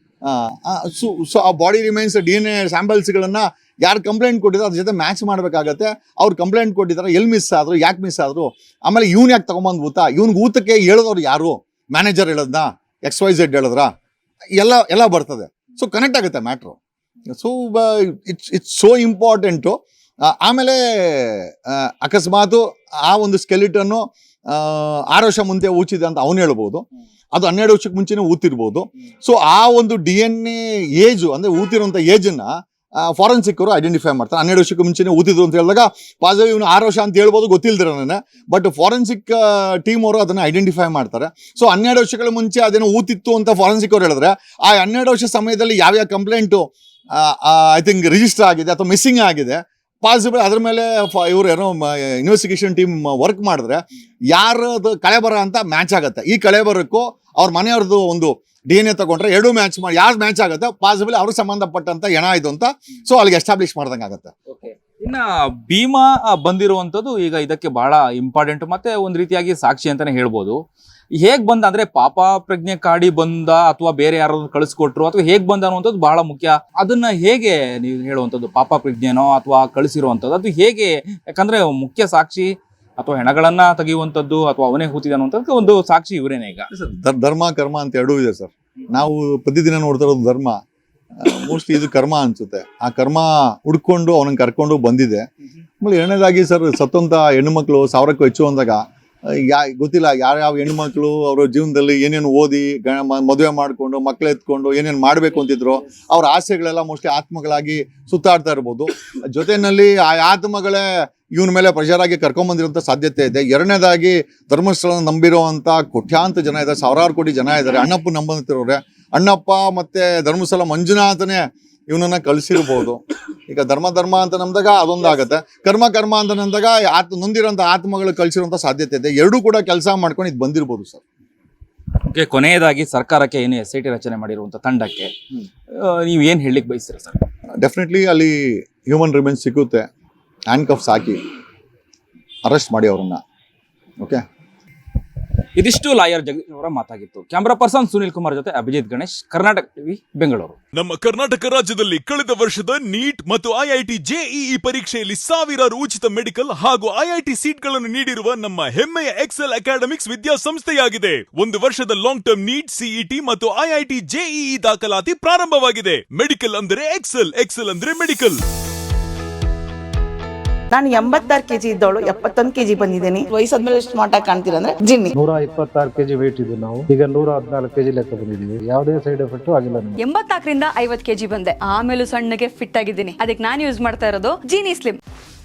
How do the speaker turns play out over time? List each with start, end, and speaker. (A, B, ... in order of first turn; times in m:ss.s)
0:00.2-0:13.9 A
0:14.6-0:16.8 A
0:17.3-0:53.8 A
0:54.3-1:04.3 A
1:04.5-1:10.6 B
1:11.2-1:26.7 B
1:26.7-1:30.6 A
1:31.2-1:35.3 A
1:35.8-2:11.0 A
2:12.1-2:15.1 B
2:15.7-2:17.2 B
2:17.6-2:19.9 A
2:20.5-2:21.2 A
2:22.4-2:23.2 A
2:25.6-2:30.6 B
2:30.7-2:48.4 C
2:50.7-2:55.1 D
2:55.1-3:00.0 E
3:00.0-3:05.0 F